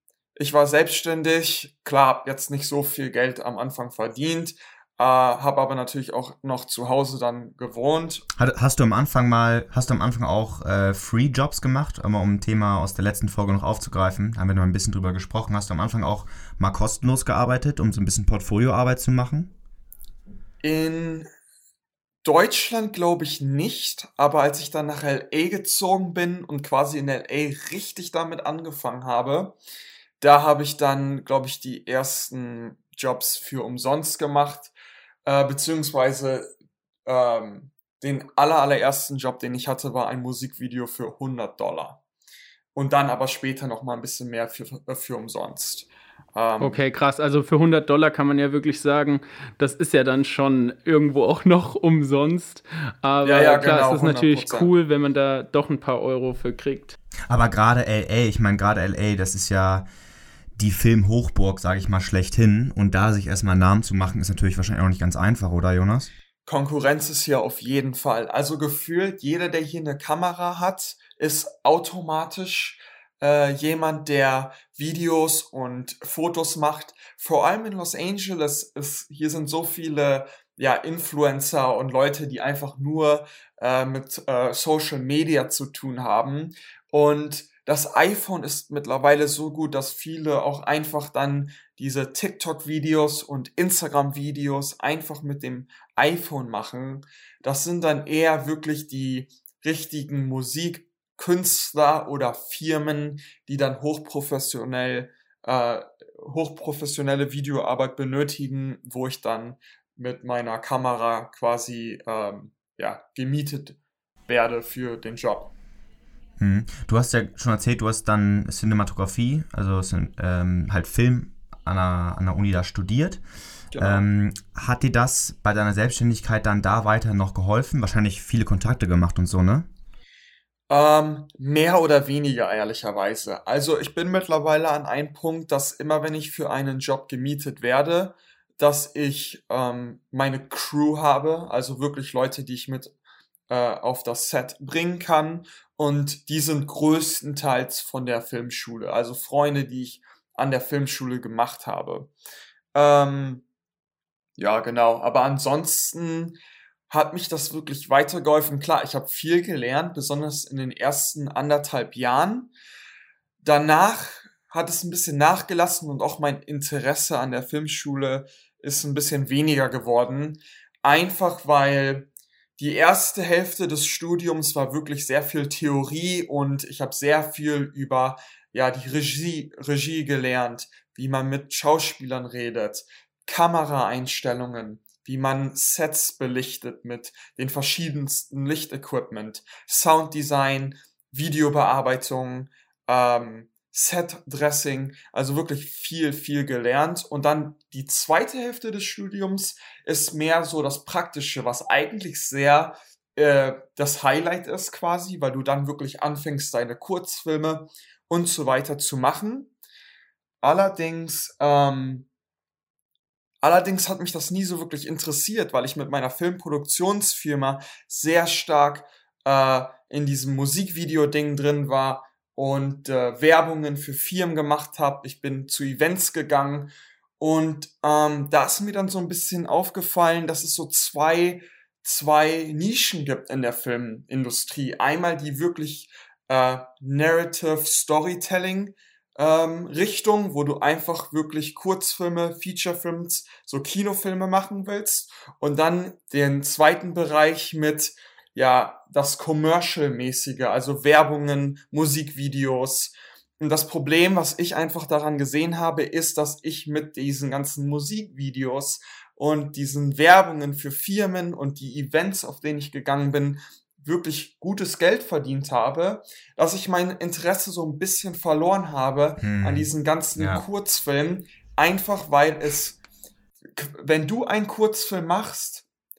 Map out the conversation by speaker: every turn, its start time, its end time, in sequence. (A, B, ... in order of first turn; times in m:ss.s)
0:00.4-0:08.2 A
0:08.4-0:19.5 B
0:20.6-0:21.3 A
0:22.2-0:29.6 A
0:30.2-0:34.7 A
0:35.2-0:36.5 A
0:37.0-0:42.0 A
0:42.7-0:46.8 A
0:46.6-0:57.0 C
0:53.2-0:54.7 A
0:57.3-0:59.9 B
1:00.6-1:06.1 B
1:06.4-1:55.5 A
1:56.4-2:03.2 B
2:03.7-2:04.0 A
2:03.8-2:09.7 B
2:10.7-2:22.9 A
2:23.5-2:32.1 A
2:32.7-2:33.4 A
2:34.4-2:36.4 A
2:36.9-2:42.5 A
2:43.4-3:29.5 A
3:30.4-3:32.1 A
3:33.4-4:32.8 A
4:29.2-4:30.4 B
4:33.5-4:35.6 A